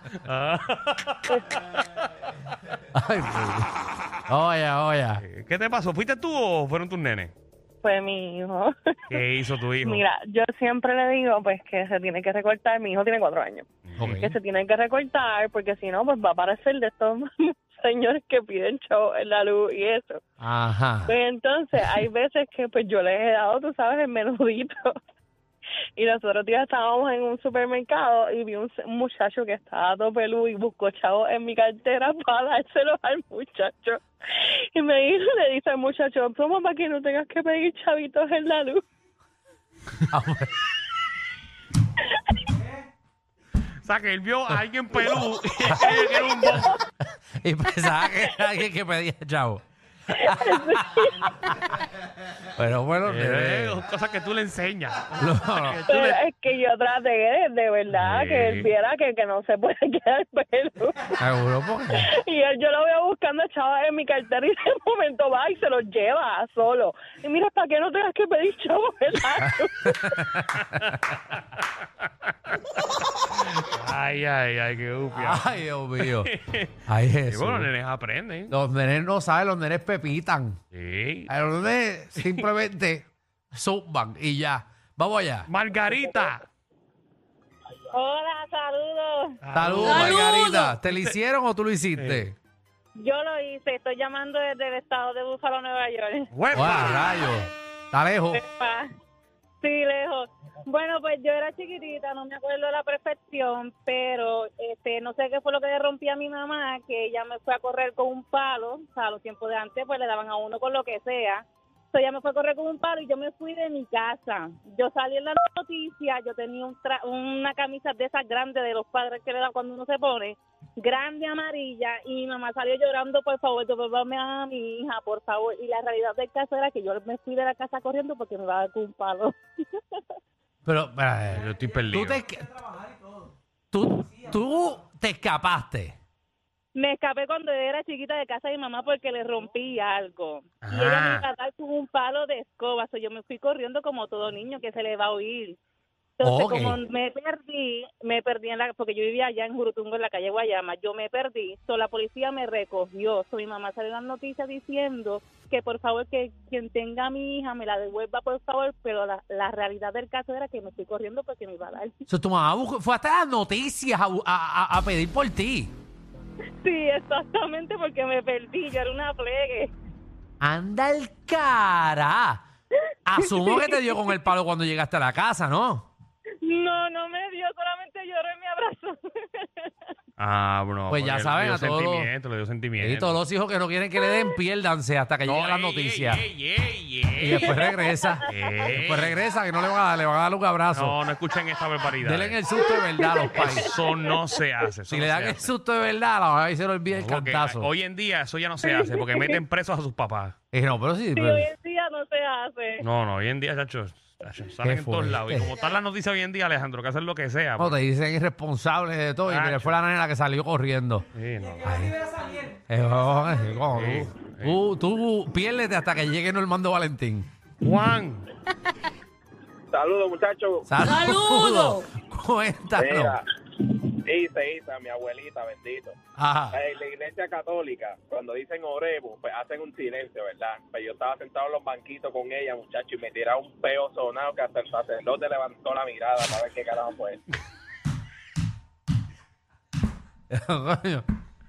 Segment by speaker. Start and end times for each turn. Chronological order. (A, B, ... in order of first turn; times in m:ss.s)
0:00.1-0:02.0 A
0:02.9-0:03.7 B
0:04.3-0:05.2 B
0:05.2-0:07.3 A
0:07.8-0:09.3 C
0:09.1-0:10.0 A
0:09.8-0:20.2 C
0:13.9-0:14.2 A
0:14.0-0:14.3 B
0:20.4-0:21.1 B
0:21.0-0:25.0 C
0:26.0-0:38.8 C
0:40.1-0:40.5 B
0:43.8-0:46.8 A
0:45.6-0:46.0 B
0:46.0-0:46.3 C
0:47.0-0:49.6 B
0:50.1-0:51.3 C
0:50.2-0:51.8 B
0:52.4-0:53.8 B
0:53.0-0:56.2 A
0:55.2-0:55.8 B
0:55.8-1:01.2 C
0:57.9-0:58.7 A
1:01.2-1:02.1 B
1:01.9-1:10.1 C
1:09.8-1:10.6 B
1:10.6-1:11.6 A
1:13.2-1:18.5 A
1:15.1-1:16.3 B
1:16.9-1:17.7 B
1:18.5-1:20.6 B
1:20.7-1:21.3 A
1:21.3-1:25.5 B
1:22.2-1:22.4 A
1:25.5-1:26.4 A
1:27.9-1:29.3 D
1:29.4-1:31.1 A
1:29.5-1:32.4 B
1:32.0-1:32.2 A
1:33.0-1:36.3 D
1:36.3-1:37.2 A
1:36.5-1:38.4 B
1:38.4-1:38.9 D
1:39.6-2:09.3 D
2:10.6-2:12.5 B
2:11.3-2:12.2 A
2:13.7-2:16.0 B
2:16.8-2:25.6 D
2:20.6-2:21.2 A
2:26.2-2:26.8 B
2:26.2-2:42.0 D
2:42.1-2:45.7 B
2:46.6-2:49.7 D
2:50.4-2:52.4 B
2:53.0-2:55.9 B
2:56.4-2:59.7 D
3:00.2-3:03.2 A
3:00.9-3:02.1 B
3:02.8-3:06.2 B
3:05.2-3:07.5 A
3:07.2-3:11.0 B
3:08.3-3:09.2 A
3:10.7-3:12.4 A
3:12.0-3:13.8 B
3:13.2-3:15.5 A
3:14.9-3:17.7 B
3:16.9-3:20.4 A
3:20.5-3:21.5 B
3:21.1-3:22.8 D
3:22.8-3:27.8 A
3:24.6-3:25.5 B
3:27.6-3:31.1 B
3:29.2-3:29.8 A
3:31.1-3:31.7 A
3:31.6-3:32.0 B
3:32.7-3:37.3 B
3:33.7-3:34.6 A
3:37.6-3:38.2 A
3:39.7-3:40.8 E
3:40.6-3:43.2 B
3:42.8-3:46.0 E
3:46.2-3:46.6 B
3:46.5-3:57.2 E
4:00.3-4:01.0 B